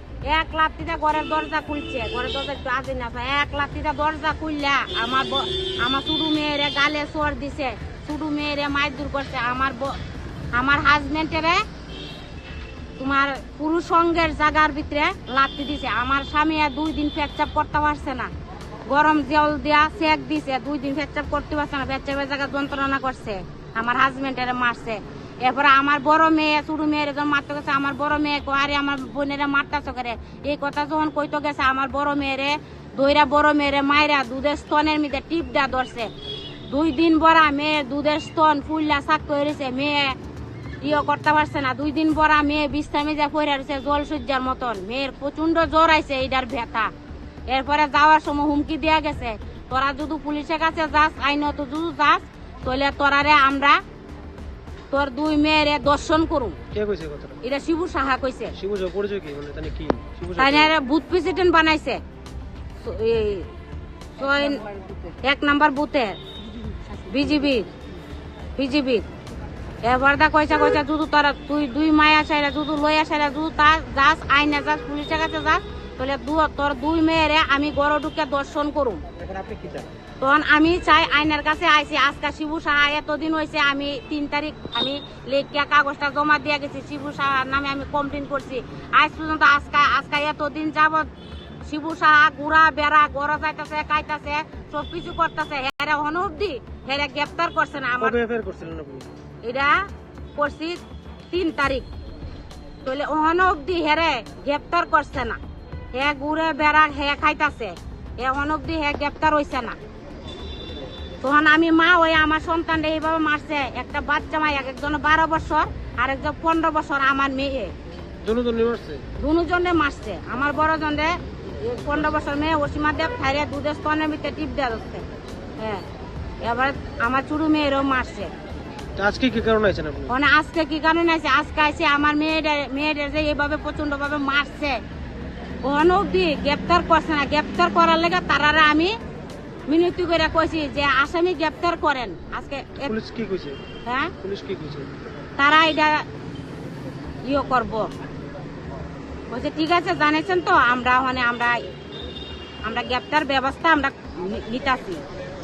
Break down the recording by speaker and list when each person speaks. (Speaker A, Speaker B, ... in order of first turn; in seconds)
Speaker A: 0.2-10.0, 10.5-11.6, 13.0-18.3, 18.9-36.1, 36.7-40.2, 40.8-46.9, 47.5-53.8, 54.9-56.6, 57.4-58.5, 60.4-62.0, 62.8-63.5, 64.2-64.6, 65.2-66.2, 67.0-67.7, 68.5-69.0, 69.8-79.0, 80.2-91.1, 91.7-98.2, 99.4-101.9, 102.8-105.4, 105.9-109.8, 111.2-117.7, 119.2-125.0, 125.6-125.8, 126.4-128.3, 130.1-134.8, 135.6-138.9, 139.7-142.9, 143.8-144.1, 145.4-146.0, 147.2-147.9, 149.3-151.6, 152.6-155.0
Speaker B: 56.7-57.4, 58.5-60.7, 98.0-99.1, 118.2-119.0, 129.0-130.1, 142.8-143.6, 144.2-144.9